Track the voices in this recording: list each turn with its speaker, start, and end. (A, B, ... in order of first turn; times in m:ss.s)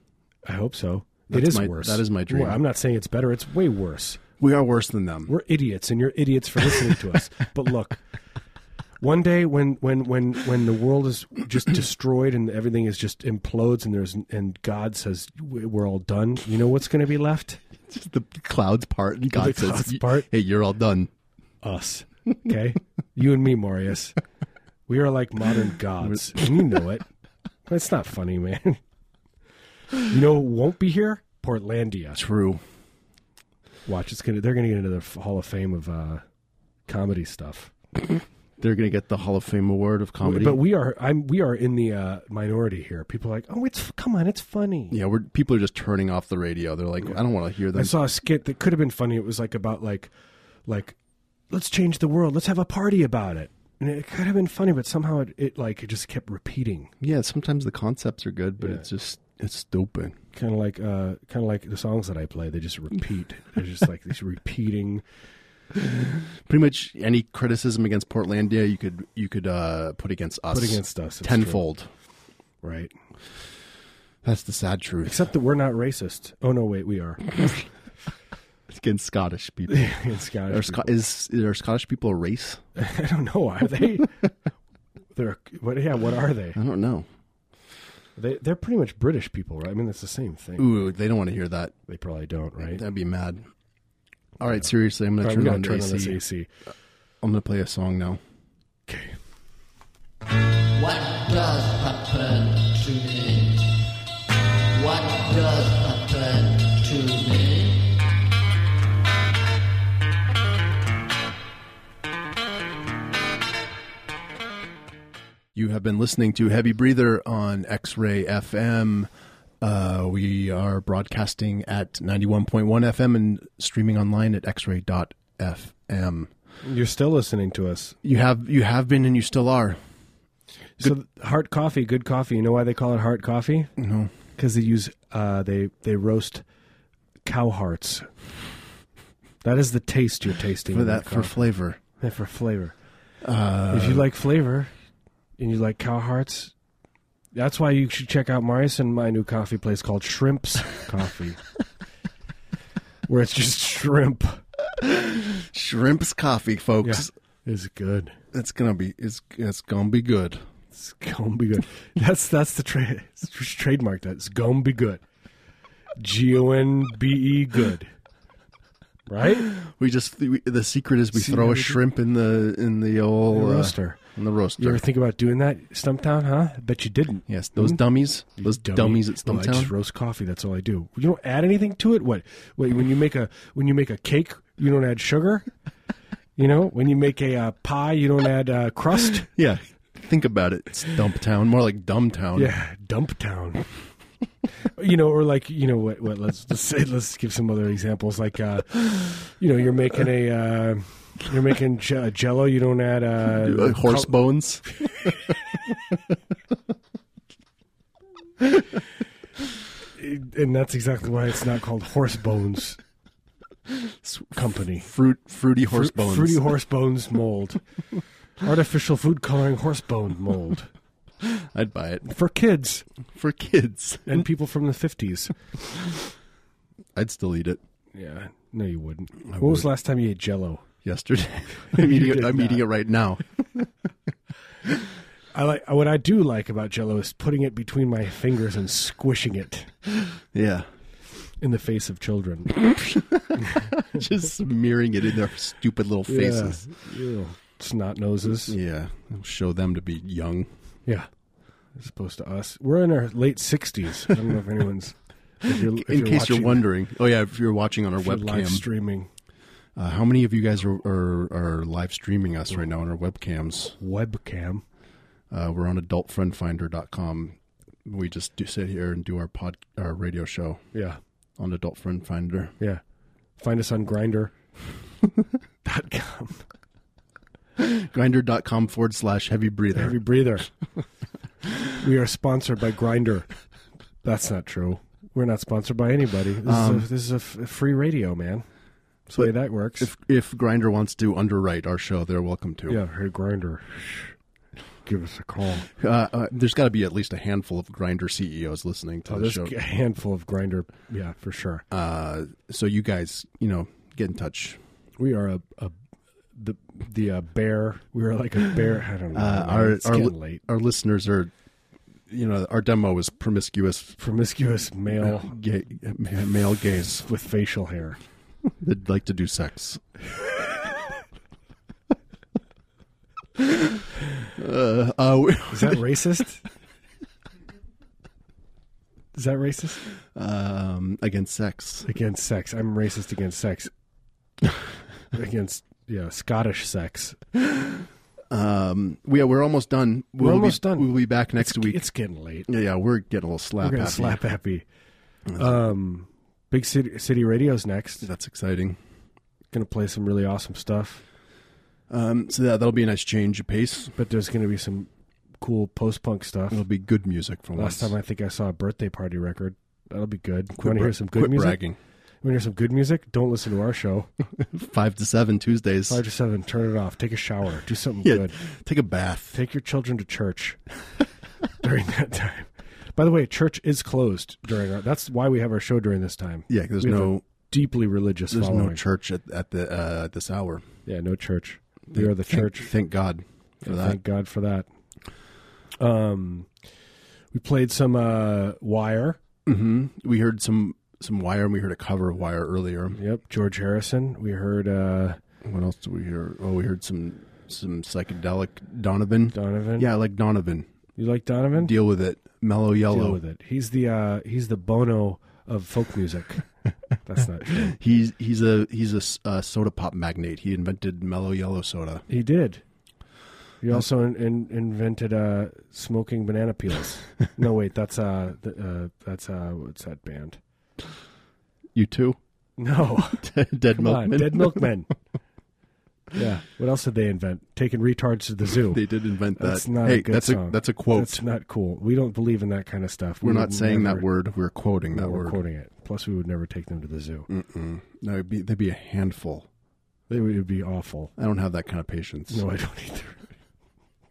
0:00.5-0:04.2 A
0:01.3-0:02.6 B
0:04.4-0:05.3 B
0:05.3-0:08.0 A
0:09.0-0:17.6 A
0:17.9-0:21.1 B
0:19.3-0:20.3 A
0:21.6-0:24.2 A
0:24.9-0:27.1 A
0:27.7-0:28.8 A
0:30.0-0:32.2 A
0:32.2-0:32.6 B
0:33.9-0:36.2 A
0:36.9-0:37.7 A
0:38.6-0:40.6 B
0:40.2-0:45.0 A
0:44.9-0:48.0 B
0:47.7-0:50.1 A
0:50.7-0:51.0 A
0:51.5-0:56.9 A
0:57.0-1:00.2 B
0:58.6-0:58.8 A
1:00.3-1:05.0 A
1:05.8-1:11.9 B
1:10.5-1:11.6 A
1:12.6-1:12.9 A
1:14.2-1:15.2 B
1:15.0-1:17.6 A
1:18.7-1:20.0 B
1:19.7-1:20.9 A
1:20.5-1:22.6 B
1:22.8-1:24.3 A
1:25.2-1:26.6 A
1:26.6-1:27.1 B
1:28.2-1:30.7 A
1:30.6-1:31.8 B
1:31.9-1:32.8 A
1:32.7-1:33.5 B
1:34.4-1:36.2 B
1:35.2-1:36.5 A
1:37.2-1:38.2 B
1:38.9-1:39.2 A
1:40.7-1:43.8 C
1:44.7-1:48.0 C
1:55.6-1:59.1 B
1:59.6-2:06.3 B
2:06.6-2:08.0 A
2:08.0-2:09.8 B
2:10.8-2:13.7 A
2:13.8-2:14.1 B
2:14.4-2:16.4 A
2:17.2-2:18.1 A
2:19.4-2:21.4 A
2:20.7-2:21.8 B
2:22.0-2:22.8 A
2:23.2-2:24.1 B
2:23.7-2:24.7 A
2:25.4-2:26.5 A
2:27.3-2:31.4 A
2:33.1-2:34.4 A
2:34.8-2:37.1 B
2:36.8-2:38.2 A
2:38.3-2:40.4 B
2:40.7-2:45.0 A
2:46.0-2:47.9 A
2:49.1-2:49.5 A
2:49.5-2:54.8 B
2:51.1-2:51.8 A
2:53.3-2:54.0 A
2:54.6-2:57.8 A
2:57.3-2:59.7 B
2:58.4-3:05.5 A
3:06.4-3:09.3 A
3:09.4-3:12.5 B
3:12.4-3:13.7 A
3:14.6-3:24.2 A
3:23.4-3:24.6 B
3:30.0-3:32.8 A
3:33.7-3:36.4 B
3:34.4-3:34.9 A
3:35.7-3:37.6 A
3:38.4-3:40.7 A
3:41.2-3:42.1 B
3:42.0-3:42.9 A
3:43.1-3:44.3 B
3:44.1-3:45.6 A
3:47.0-3:47.6 B
3:47.9-3:50.7 A
3:49.3-3:49.7 B
3:50.8-3:53.7 B
3:51.7-3:52.6 A
3:55.3-3:59.7 A
4:00.1-4:00.7 B
4:01.4-4:02.6 A
4:02.6-4:06.7 B
4:03.4-4:03.7 A
4:06.1-4:08.6 A
4:08.3-4:10.5 B
4:11.8-4:16.6 A
4:15.7-4:18.7 B
4:18.0-4:19.1 A
4:19.8-4:23.8 B
4:23.8-4:24.6 A
4:25.3-4:30.7 B
4:30.7-4:31.0 A
4:31.4-4:32.6 B
4:33.4-4:34.3 A
4:35.6-4:36.5 A
4:37.6-4:40.0 B
4:39.8-4:40.5 A
4:41.8-4:43.3 A
4:44.0-4:48.5 A
4:46.4-4:46.9 B
4:49.1-4:49.9 A
4:49.2-4:52.8 B
4:52.7-4:54.2 A
4:54.8-4:55.7 A
4:55.8-4:59.5 B
4:59.1-5:01.6 A
5:01.7-5:04.6 B
5:05.0-5:05.7 A
5:06.4-5:10.4 A
5:09.1-5:11.3 B
5:12.1-5:14.0 B
5:14.0-5:15.4 A
5:15.0-5:17.1 B
5:17.0-5:18.0 A
5:18.5-5:19.8 B
5:23.4-5:23.8 B
5:24.4-5:25.8 B
5:25.5-5:26.5 A
5:29.1-5:29.9 A
5:30.2-5:31.9 B
5:31.8-5:33.7 A
5:35.1-5:37.2 A
5:38.3-5:41.8 B
5:40.2-5:42.5 A
5:42.5-5:44.2 B
5:43.6-5:44.7 A
5:45.4-5:48.1 A
5:48.0-5:48.8 B
5:49.5-5:51.0 A
5:51.9-5:54.0 B
5:54.0-5:54.9 A
5:55.4-5:56.6 A
5:56.5-5:57.9 B
5:57.6-6:01.6 A
6:00.6-6:01.8 B
6:02.2-6:04.1 A
6:04.4-6:06.0 B
6:05.9-6:08.4 A
6:08.0-6:09.4 B
6:09.3-6:10.6 A
6:11.6-6:18.8 A
6:16.5-6:17.2 B
6:18.3-6:20.6 B
6:20.9-6:22.7 A
6:21.9-6:24.0 B
6:23.6-6:24.7 A
6:25.8-6:26.5 A
6:27.3-6:29.2 A
6:29.5-6:33.0 B
6:33.0-6:35.2 A
6:35.4-6:40.7 B
6:39.3-6:39.9 A
6:41.0-6:41.7 A
6:41.6-6:43.2 B
6:42.9-6:46.5 A
6:47.0-6:47.8 A
6:47.6-6:52.0 B
6:52.1-6:52.6 A
6:53.6-7:00.4 A
7:01.7-7:02.2 B
7:02.6-7:04.9 A
7:03.2-7:04.7 B
7:06.1-7:08.8 A
7:08.7-7:11.2 B
7:09.4-7:14.1 A
7:13.2-7:15.4 B
7:14.9-7:17.3 A
7:17.3-7:19.5 B
7:20.1-7:21.1 A
7:21.2-7:22.4 B
7:22.3-7:23.3 A